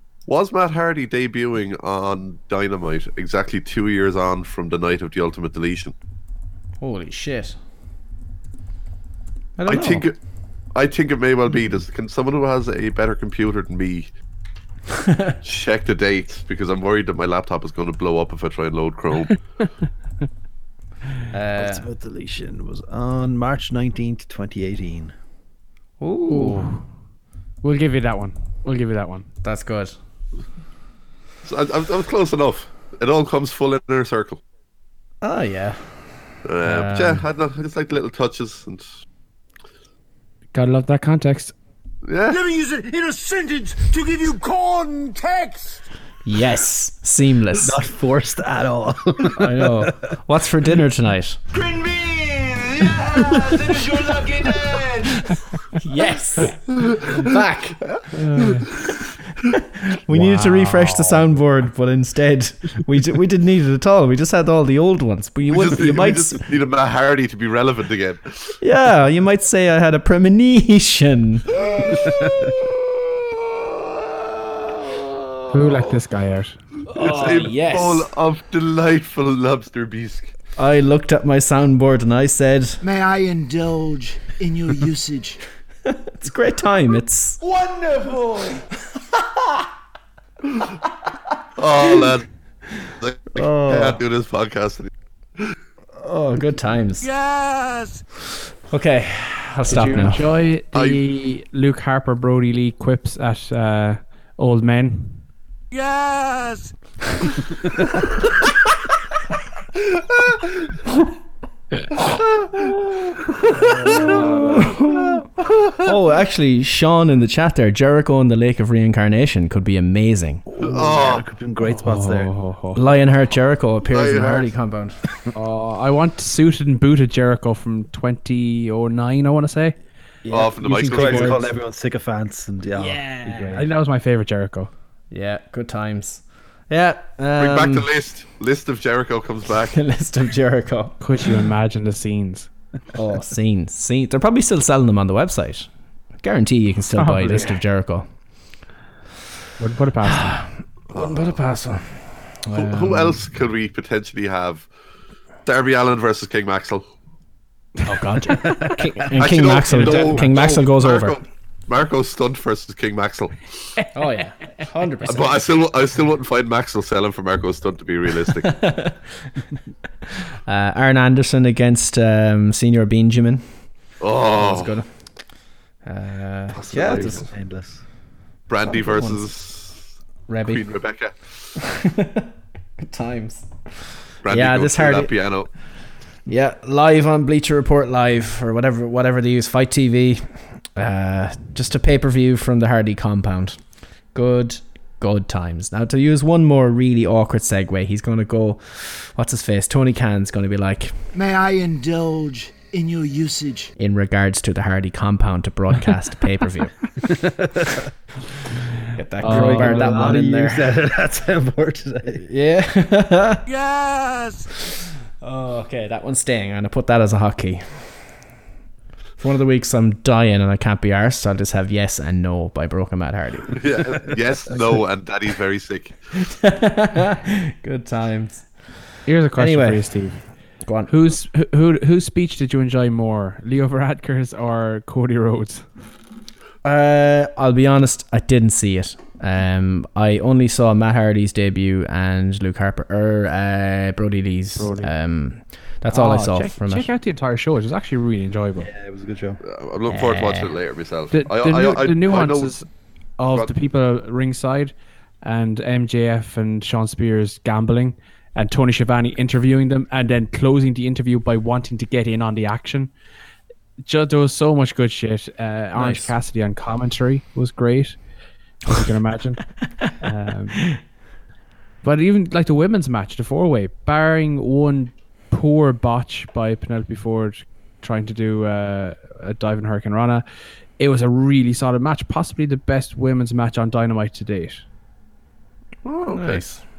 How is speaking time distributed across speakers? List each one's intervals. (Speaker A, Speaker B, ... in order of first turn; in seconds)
Speaker A: 0.2-5.9, 9.7-14.2, 15.4-19.4, 31.4-34.4, 36.4-38.9, 42.0-42.4, 56.7-57.2, 57.8-58.1, 58.7-59.0, 65.5-68.6, 76.9-80.3, 91.5-92.3, 93.0-95.5, 100.7-101.1, 112.1-112.5, 120.6-121.2, 123.9-124.5, 130.3-131.4, 137.4-139.8, 150.9-151.3, 152.5-154.7, 155.4-156.9, 159.2-163.7, 165.1-168.7, 174.0-174.7, 178.5-179.9, 180.4-181.5, 184.2-185.8, 223.5-226.2, 249.4-252.6, 286.1-286.4
Speaker B: 6.8-7.6, 9.6-10.1, 21.3-21.9, 26.0-26.7, 29.4-30.0, 35.2-37.2, 46.2-47.8, 49.3-51.4, 55.8-57.8, 59.9-66.5, 68.6-72.3, 74.2-75.5, 76.9-78.1, 80.5-82.8, 85.9-87.4, 93.3-94.0, 96.0-97.1, 98.7-100.2, 112.6-115.2, 115.8-120.5, 122.7-125.0, 130.2-131.5, 132.7-133.6, 135.1-137.9, 139.7-141.4, 142.9-148.6, 150.3-153.2, 157.8-161.2, 163.9-165.5, 168.4-169.4, 170.5-177.3, 178.7-179.5, 180.3-182.3, 182.8-185.7, 186.2-201.1, 203.8-207.1, 208.9-210.8, 212.2-213.4, 215.2-218.1, 219.2-224.5, 226.3-230.9, 236.6-246.9, 249.9-250.5, 265.7-266.1, 285.8-286.6
Speaker C: 21.6-25.1, 47.5-50.0, 113.8-114.6, 120.5-122.3, 130.9-133.7, 158.4-158.8, 159.7-160.2, 176.5-177.8, 209.2-212.2, 248.6-249.4
Speaker D: 26.3-27.0, 27.6-29.3, 40.5-41.5, 58.1-58.7, 60.4-61.2, 75.5-76.6, 99.7-105.3, 121.8-122.8, 125.3-129.8, 133.5-134.7, 141.0-142.5, 146.9-147.6, 149.6-150.6, 209.2-210.2, 229.0-235.8, 244.6-248.7, 251.1-252.7, 253.2-262.9, 263.8-268.0, 268.6-271.0, 271.8-280.2, 280.8-284.6
Speaker E: 42.3-45.9, 51.5-55.3, 82.8-85.4, 87.4-88.7, 97.0-98.0, 105.7-107.0, 201.1-203.7, 213.5-214.5